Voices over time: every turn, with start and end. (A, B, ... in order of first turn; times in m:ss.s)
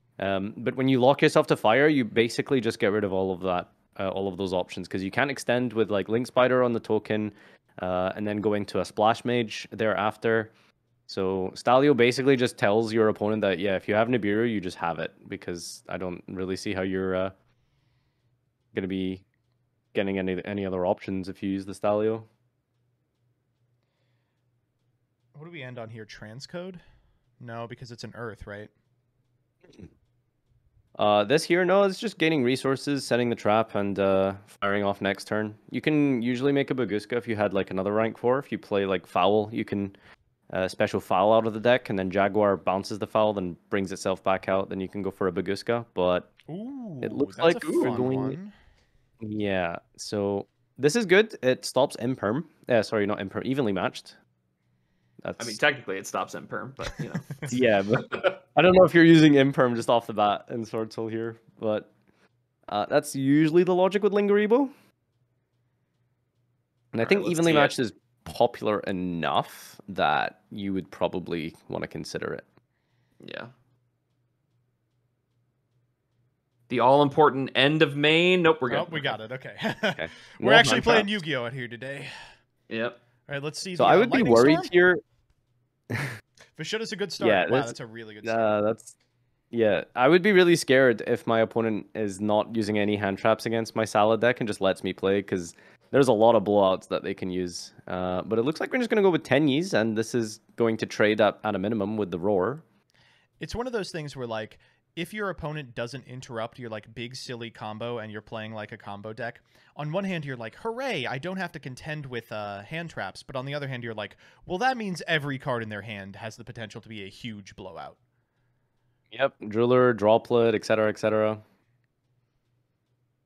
0:00.2-0:10.5 A
0:11.1-0:17.4 A
0:18.7-0:19.2 A
0:19.9-0:22.3 A
0:25.3-0:26.8 B
0:27.4-0:28.7 B
0:31.0-0:40.0 A
0:40.5-0:46.3 A
0:46.5-0:48.5 B
0:47.0-0:48.4 A
0:49.2-0:54.2 A
0:55.2-0:55.6 A
0:55.4-0:57.5 C
0:57.5-1:01.9 A
1:02.7-1:04.7 A
1:06.9-1:12.4 A
1:07.0-1:07.8 C
1:13.2-1:13.5 C
1:16.7-1:19.1 C
1:18.7-1:22.1 B
1:20.0-1:21.1 A
1:22.7-1:23.0 C
1:23.3-1:24.7 B
1:23.8-1:25.0 A
1:25.9-1:26.2 A
1:26.6-1:28.5 B
1:27.2-1:29.0 A
1:29.5-1:42.6 A
1:43.4-1:58.0 B
1:59.1-2:01.4 A